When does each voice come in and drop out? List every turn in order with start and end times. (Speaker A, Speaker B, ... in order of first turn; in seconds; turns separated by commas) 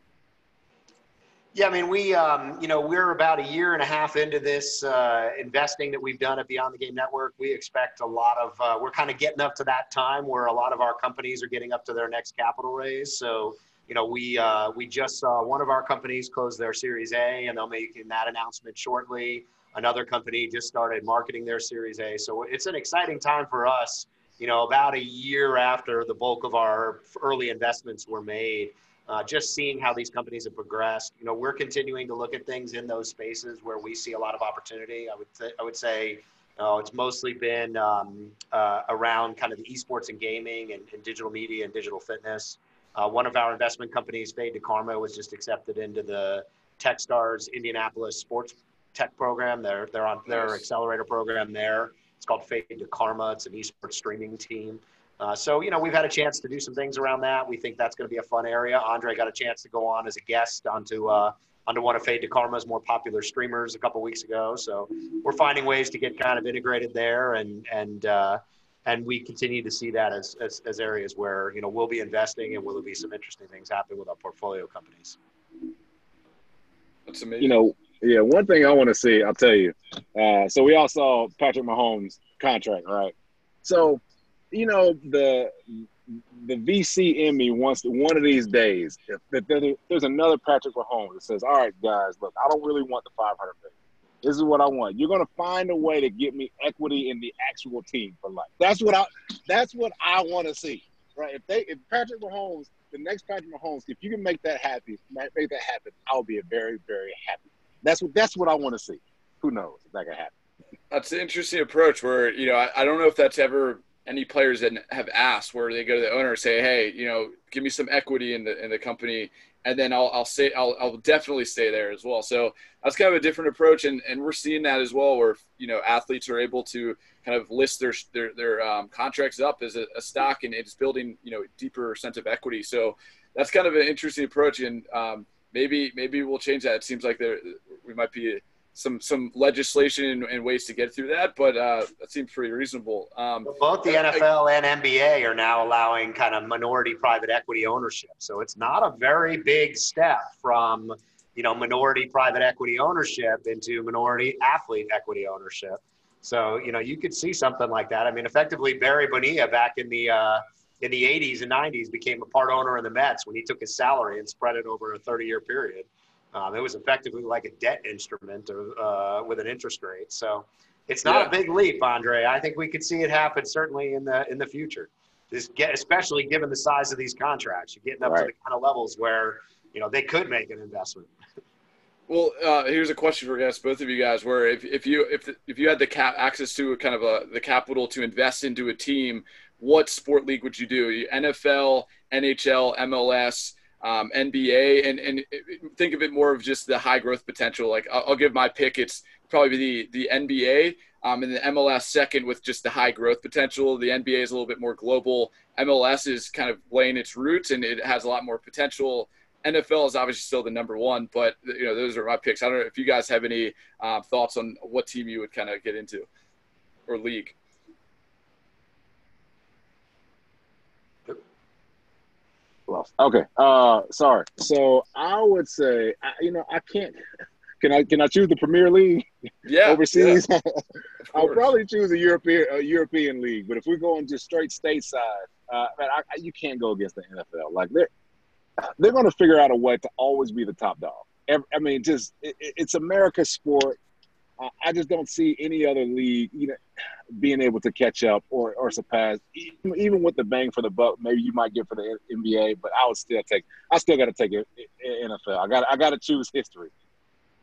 Speaker A: 1.5-75.2, Speaker B: 77.1-77.5, Speaker C: 77.4-84.0, Speaker C: 84.5-85.5, Speaker C: 86.3-93.7, Speaker C: 94.2-110.3, Speaker B: 110.9-144.2, Speaker A: 143.4-181.1, Speaker B: 171.1-171.3, Speaker B: 182.1-216.1, Speaker B: 216.9-217.3, Speaker C: 222.7-227.0, Speaker C: 227.6-229.1, Speaker B: 229.4-230.2, Speaker C: 229.6-237.9, Speaker B: 231.1-231.5, Speaker C: 238.6-243.8, Speaker C: 244.4-246.6, Speaker C: 247.1-256.7